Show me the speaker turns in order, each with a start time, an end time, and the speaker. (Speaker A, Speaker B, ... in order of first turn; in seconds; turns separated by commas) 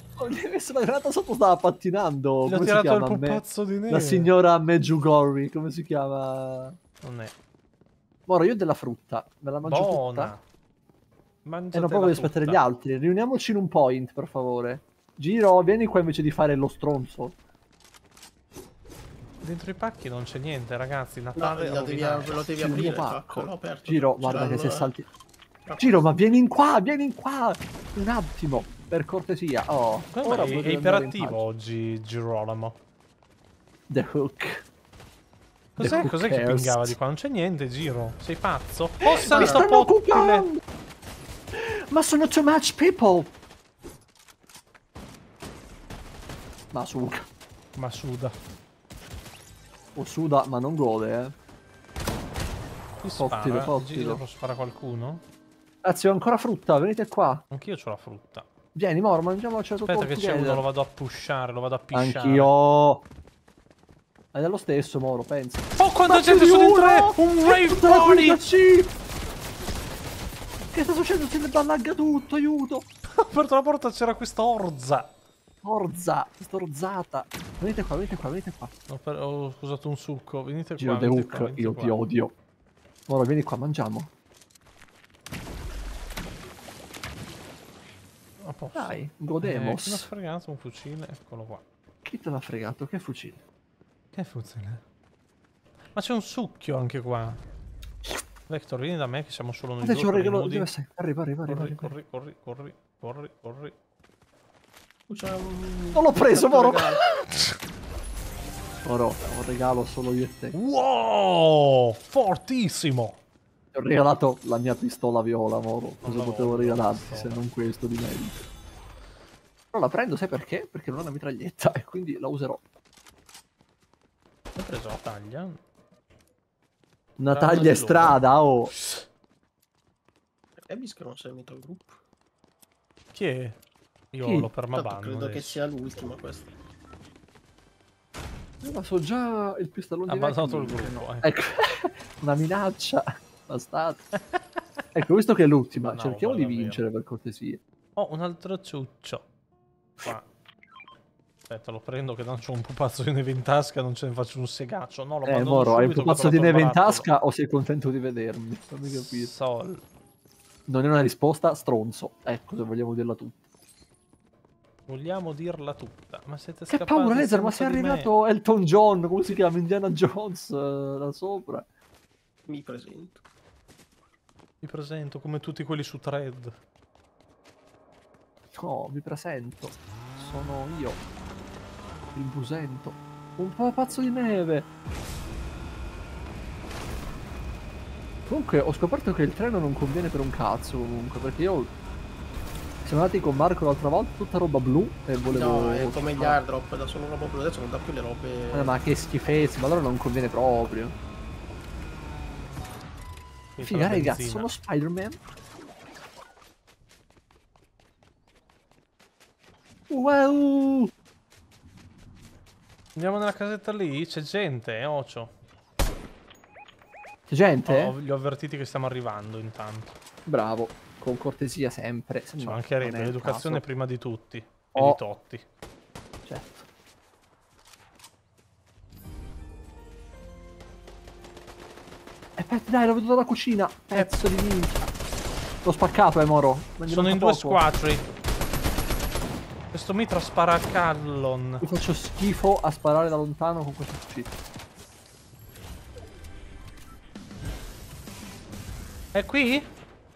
Speaker A: 0.2-6.8, Speaker B: 2.5-4.3, Speaker B: 7.0-7.3, Speaker A: 8.3-10.3, Speaker B: 9.6-10.4, Speaker B: 11.4-12.7, Speaker A: 11.7-17.4, Speaker B: 19.4-22.8, Speaker C: 21.4-24.9, Speaker A: 22.6-25.1, Speaker C: 25.7-26.1, Speaker A: 25.8-31.4, Speaker B: 30.1-32.8, Speaker A: 33.9-34.6, Speaker A: 35.8-37.0, Speaker B: 35.8-40.5, Speaker A: 39.0-40.6, Speaker A: 41.5-43.3, Speaker A: 46.7-47.3, Speaker B: 47.8-48.4, Speaker A: 50.0-51.4, Speaker B: 53.0-55.2, Speaker A: 53.2-54.2, Speaker A: 55.8-57.4, Speaker B: 57.5-58.5, Speaker A: 58.8-60.6, Speaker B: 59.9-62.5, Speaker A: 61.9-63.0, Speaker A: 64.3-68.9, Speaker B: 65.8-68.4, Speaker A: 70.7-72.9, Speaker B: 73.2-75.1, Speaker A: 75.6-78.7, Speaker B: 78.9-82.0, Speaker A: 80.8-82.3, Speaker A: 83.1-84.1, Speaker B: 88.4-91.6, Speaker A: 88.8-90.1, Speaker A: 92.0-93.4, Speaker B: 94.1-94.8, Speaker B: 96.0-97.4, Speaker B: 98.5-100.7, Speaker A: 99.8-101.9, Speaker B: 101.5-103.8, Speaker C: 105.1-107.0, Speaker A: 105.9-107.3, Speaker A: 108.8-110.5, Speaker B: 110.5-113.2, Speaker A: 113.7-118.4, Speaker B: 116.0-117.5, Speaker A: 119.7-122.6, Speaker B: 124.5-125.6, Speaker A: 127.2-128.7, Speaker B: 127.3-129.1, Speaker C: 130.6-132.0, Speaker B: 133.1-133.6, Speaker B: 134.1-135.6, Speaker A: 134.2-134.5, Speaker C: 134.7-136.5, Speaker A: 138.6-144.1, Speaker B: 140.1-141.3, Speaker A: 144.9-147.6, Speaker B: 145.8-146.8, Speaker B: 148.0-149.3, Speaker B: 151.5-157.1, Speaker A: 155.2-159.3, Speaker B: 158.9-159.8, Speaker A: 160.7-163.4, Speaker B: 164.9-168.1, Speaker A: 166.7-171.7, Speaker C: 172.5-173.2, Speaker B: 174.6-176.6, Speaker A: 178.6-181.0, Speaker A: 182.1-184.7, Speaker A: 188.3-191.7, Speaker A: 192.8-196.4, Speaker C: 195.3-198.7, Speaker A: 198.5-200.9, Speaker B: 203.6-204.5, Speaker A: 203.6-205.2, Speaker A: 209.9-210.9, Speaker B: 213.0-215.3, Speaker A: 217.3-217.9, Speaker B: 217.7-219.9, Speaker A: 220.3-223.7, Speaker B: 222.4-225.4, Speaker A: 226.2-226.7, Speaker A: 232.4-234.8, Speaker B: 233.9-234.2, Speaker A: 235.6-237.6, Speaker B: 236.9-238.1, Speaker B: 239.7-241.7, Speaker A: 241.6-244.3, Speaker B: 249.1-249.7